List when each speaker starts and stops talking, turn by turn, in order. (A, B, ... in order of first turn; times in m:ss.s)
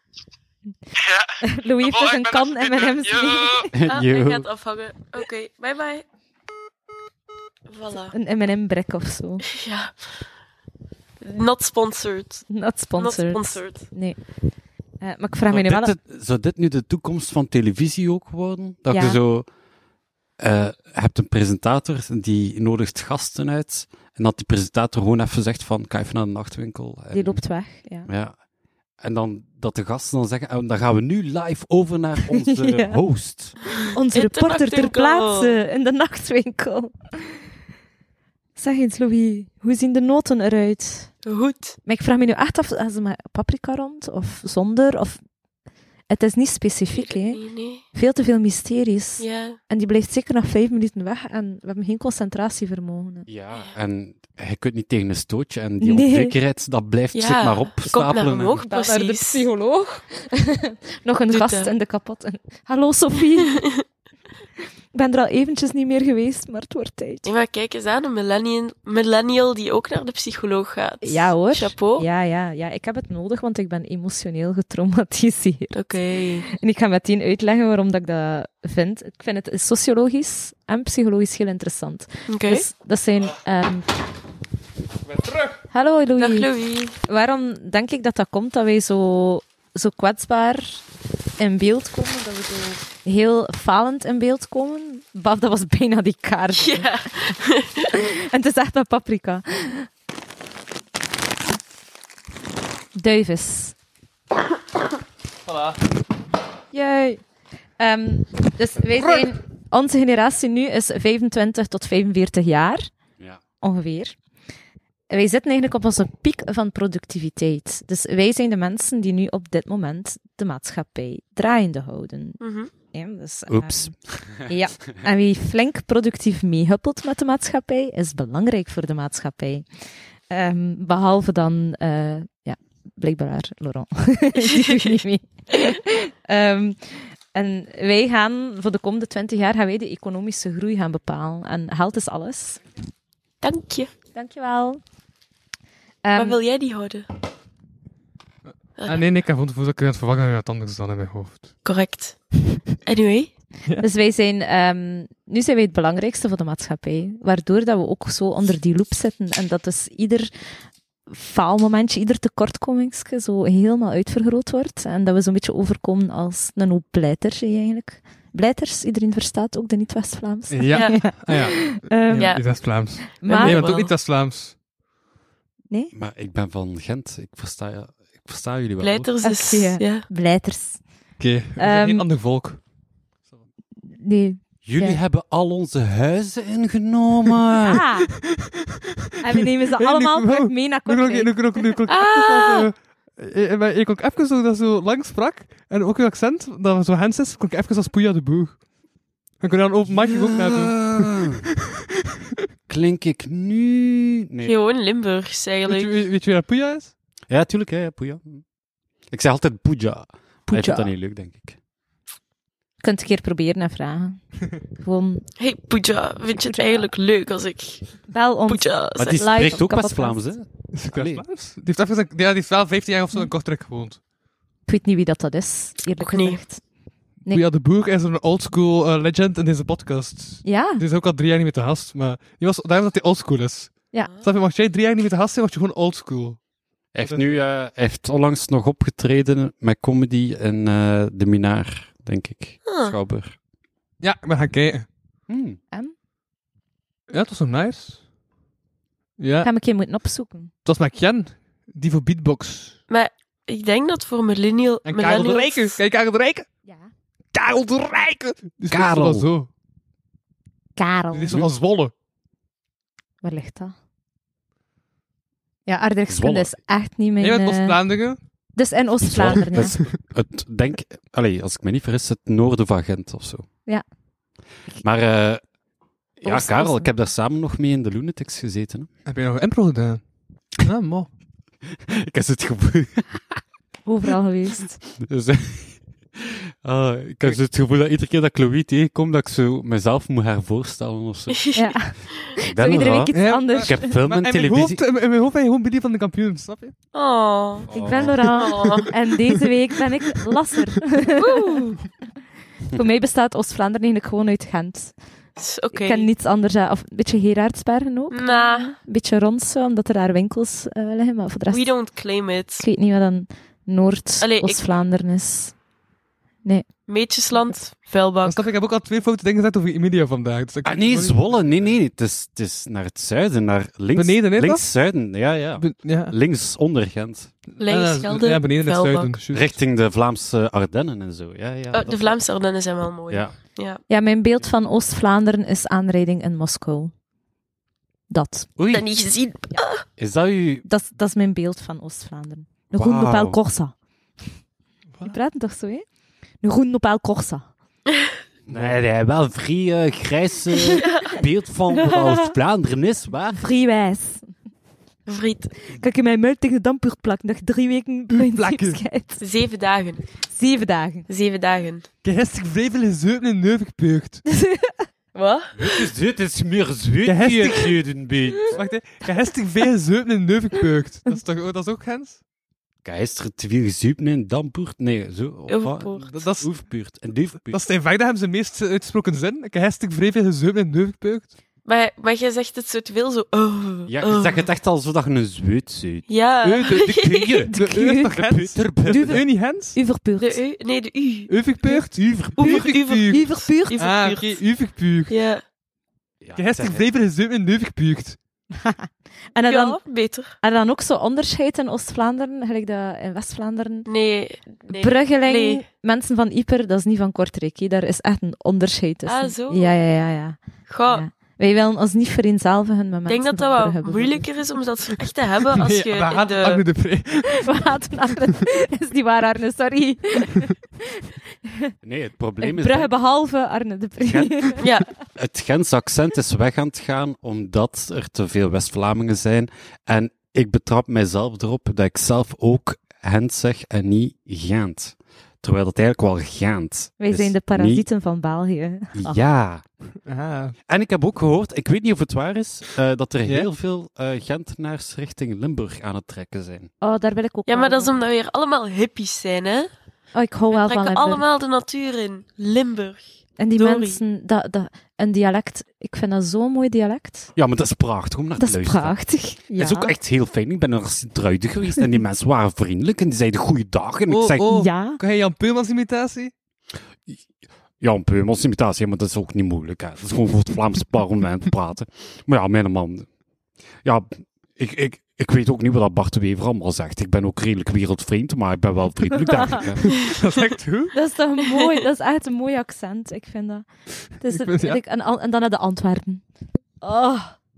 0:01.0-0:03.7 A
0:01.4-0:03.7 B
0:03.7-0:04.5 C
0:03.9-0:06.0 D
0:07.7-0:08.2 D
0:08.1-0:09.5 B
0:09.6-0:10.3 D
0:11.2-0:14.0 D
0:12.5-0:14.2 B
0:15.0-0:15.9 B
0:15.5-0:19.5 C
0:18.9-0:19.2 B
0:20.4-0:27.4 C
0:27.1-0:28.1 B
0:28.1-0:28.4 C
0:29.0-0:33.6 C
0:32.3-0:33.0 B
0:33.9-0:37.4 B
0:34.1-0:35.6 D
0:38.6-0:41.1 B
0:41.2-0:41.8 D
0:41.8-0:45.2 B
0:46.1-0:47.4 B
0:46.9-0:47.8 D
0:47.9-0:53.3 B
0:49.2-0:49.6 D
0:53.3-0:58.7 C
0:55.8-0:56.4 B
0:57.1-0:59.4 D
0:58.7-1:03.6 B
1:01.3-1:01.7 D
1:03.5-1:03.7 D
1:04.9-1:07.3 B
1:07.2-1:12.1 D
1:11.0-1:15.8 B
1:15.7-1:16.5 D
1:16.4-1:23.8 B
1:22.3-1:22.6 D
1:25.1-1:25.6 E
1:25.7-1:26.5 B
1:26.2-1:27.0 D
1:27.0-1:30.8 B
1:31.4-1:36.9 B
1:36.6-1:37.9 D
1:37.9-1:39.9 B
1:43.0-1:43.8 B
1:45.5-1:45.8 E
1:46.7-1:47.2 B
1:47.8-1:52.9 B
1:53.6-1:54.2 B
1:55.1-2:02.4 B
2:02.4-2:02.7 D
2:02.9-2:09.7 B
2:03.5-2:04.6 C
2:10.3-2:22.6 B
2:23.4-2:23.9 D
2:24.2-2:24.8 B
2:26.0-2:26.4 B
2:26.2-2:27.1 D
2:28.8-2:29.1 D
2:28.8-2:31.5 E
2:31.6-2:33.3 D
2:33.8-2:40.3 B
2:41.1-2:52.6 B
2:50.5-2:54.6 E
2:50.7-2:51.0 D
2:53.2-2:53.9 D
2:53.2-2:53.6 B
2:55.9-2:59.1 C
2:58.8-3:00.1 D
2:59.2-3:00.8 B
3:01.2-3:02.6 E
3:01.6-3:02.0 B
3:04.0-3:05.0 B
3:04.6-3:07.8 C
3:07.7-3:08.1 B
3:09.2-3:11.8 B
3:09.8-3:18.6 E
3:11.9-3:12.7 D
3:19.4-3:21.2 E
3:19.9-3:21.4 C
3:22.7-3:24.5 C
3:24.4-3:26.0 D
3:25.7-3:26.9 E
3:27.3-3:28.4 C
3:29.1-3:31.6 C
3:30.5-3:30.9 B
3:32.8-3:34.2 B
3:34.8-3:35.3 B
3:35.4-3:39.2 D
3:36.3-3:36.9 B
3:38.1-3:40.3 B
3:39.0-3:41.2 C
3:40.7-3:44.0 E
3:44.7-3:46.6 B
3:46.0-3:46.4 D
3:47.3-3:56.4 E
3:50.4-3:50.8 B
3:56.9-4:03.4 C
3:57.0-3:57.3 E
4:02.7-4:03.0 D
4:04.0-4:04.9 E
4:05.3-4:05.6 C
4:07.1-4:08.0 E
4:09.2-4:09.5 E
4:09.4-4:10.5 B
4:10.6-4:12.8 E
4:12.9-4:15.8 D
4:14.8-4:16.5 E
4:16.6-4:16.9 B
4:17.3-4:19.5 E
4:18.7-4:19.3 C
4:20.8-4:21.4 B
4:21.1-4:21.9 E
4:23.2-4:23.7 B
4:25.7-4:27.8 B
4:26.1-4:26.6 C
4:27.2-4:28.2 E
4:28.6-4:29.8 B
4:29.0-4:33.4 C
4:34.8-4:35.4 C
4:36.2-4:38.9 C
4:36.3-4:36.7 D
4:36.6-4:36.8 B
4:39.1-4:40.0 E
4:40.6-4:41.1 E
4:41.9-4:43.4 C
4:43.9-4:44.8 B
4:45.0-4:54.8 C
4:51.6-4:53.9 B
4:53.1-4:56.8 E
4:56.9-4:57.7 D
4:57.7-4:58.2 C
4:57.7-5:01.8 B
4:58.2-4:58.9 D
5:01.2-5:01.7 D
5:02.7-5:04.9 B
5:05.4-5:06.1 D
5:05.7-5:11.7 B
5:08.1-5:08.7 D
5:11.5-5:12.6 D
5:12.6-5:15.6 B
5:14.2-5:14.6 D
5:16.4-5:17.6 B
5:16.9-5:18.5 D
5:18.2-5:21.8 E
5:20.6-5:27.3 C
5:24.0-5:24.7 E
5:25.6-5:26.2 E
5:27.6-5:29.5 E
5:27.6-5:29.2 D
5:29.3-5:32.2 C
5:31.7-5:33.8 D
5:33.1-5:33.4 C
5:33.9-5:36.9 B
5:38.1-5:38.5 B
5:38.6-5:38.8 C
5:38.7-5:39.8 D
5:40.0-5:40.6 C
5:40.6-5:43.7 B
5:42.7-5:43.4 C
5:45.0-5:45.8 B
5:46.4-5:47.5 B
5:48.5-5:53.4 C
5:48.5-5:48.8 E
5:50.7-5:51.2 D
5:51.7-5:52.3 B
5:53.4-5:54.3 B
5:55.1-5:55.5 D
5:55.7-5:59.2 B
5:58.2-5:58.8 E
5:59.2-6:00.0 D
6:00.3-6:01.1 B
6:01.1-6:01.9 D
6:02.0-6:04.2 E
6:04.3-6:04.9 B
6:05.2-6:05.6 D
6:05.6-6:08.6 C
6:07.1-6:07.7 E
6:08.5-6:12.2 E
6:12.8-6:17.6 C
6:15.5-6:16.1 D
6:16.1-6:16.5 E
6:17.5-6:21.3 E
6:21.6-6:24.4 D
6:23.9-6:29.2 C
6:26.1-6:27.4 D
6:27.5-6:28.2 B
6:27.5-6:29.8 E
6:28.9-6:30.4 B
6:30.2-6:31.3 D
6:31.3-6:35.1 E
6:32.0-6:32.6 C
6:32.4-6:33.8 B
6:32.4-6:34.4 D
6:35.1-6:35.4 D
6:36.2-6:36.9 C
6:36.4-6:38.2 E
6:38.6-6:39.8 B
6:39.5-6:40.4 D
6:40.4-6:43.9 B
6:43.9-6:45.6 D
6:44.7-6:54.3 B
6:49.1-6:49.8 D
6:50.7-6:51.1 D
6:53.1-6:56.6 D
6:55.6-6:57.4 E
6:57.4-7:01.0 B
7:01.8-7:02.9 C
7:02.4-7:04.6 B
7:04.0-7:17.9 C
7:04.6-7:04.9 D
7:17.0-7:19.2 B
7:18.9-7:19.6 C
7:20.1-7:20.6 E
7:20.7-7:26.7 C
7:26.8-7:27.9 B
7:27.5-7:29.7 D
7:30.2-7:31.2 B
7:30.5-7:34.0 D
7:33.4-7:37.3 B
7:37.4-7:39.0 C
7:38.4-7:39.9 B
7:39.6-7:44.5 C
7:44.1-7:46.3 E
7:44.5-7:45.0 B
7:47.8-7:53.1 C
7:53.8-8:00.0 C
7:59.9-8:01.0 E
8:00.9-8:06.2 B
8:04.3-8:04.8 E
8:06.8-8:07.4 B